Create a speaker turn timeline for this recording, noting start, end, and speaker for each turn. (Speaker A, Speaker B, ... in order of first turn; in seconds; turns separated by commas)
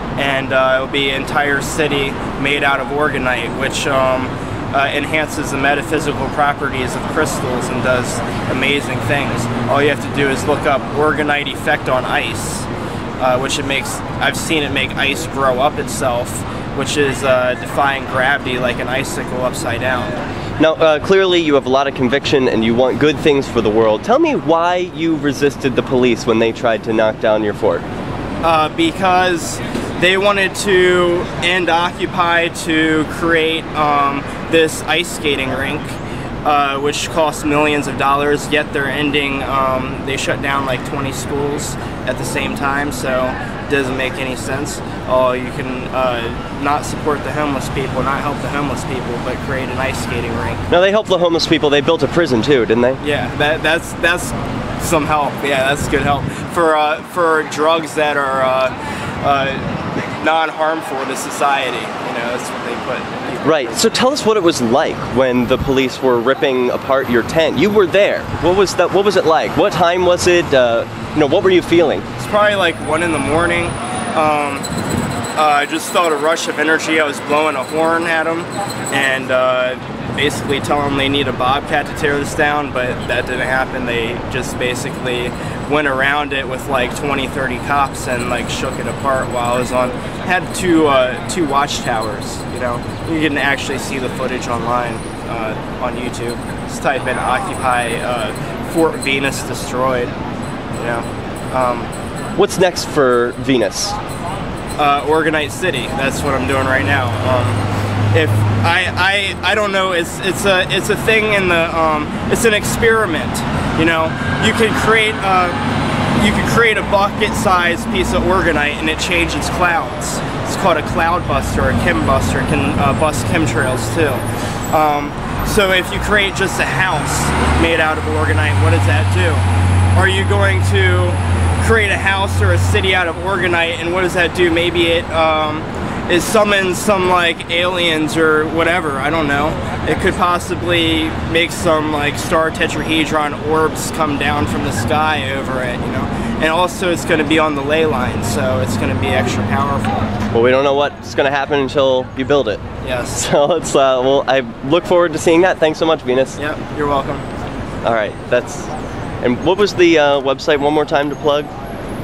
Speaker A: 0.2-12.7, Speaker A: 13.2-20.1, Speaker B: 20.6-27.8, Speaker A: 28.4-50.6, Speaker B: 50.7-53.0, Speaker A: 53.0-64.0, Speaker B: 63.4-72.0, Speaker A: 72.2-74.7, Speaker A: 75.3-100.1, Speaker A: 100.8-101.9, Speaker B: 102.4-104.0, Speaker A: 104.8-115.6, Speaker A: 116.2-150.2, Speaker B: 150.3-152.6, Speaker A: 152.8-153.3, Speaker B: 153.2-156.4, Speaker A: 156.4-157.2, Speaker B: 157.8-158.7, Speaker B: 159.2-161.5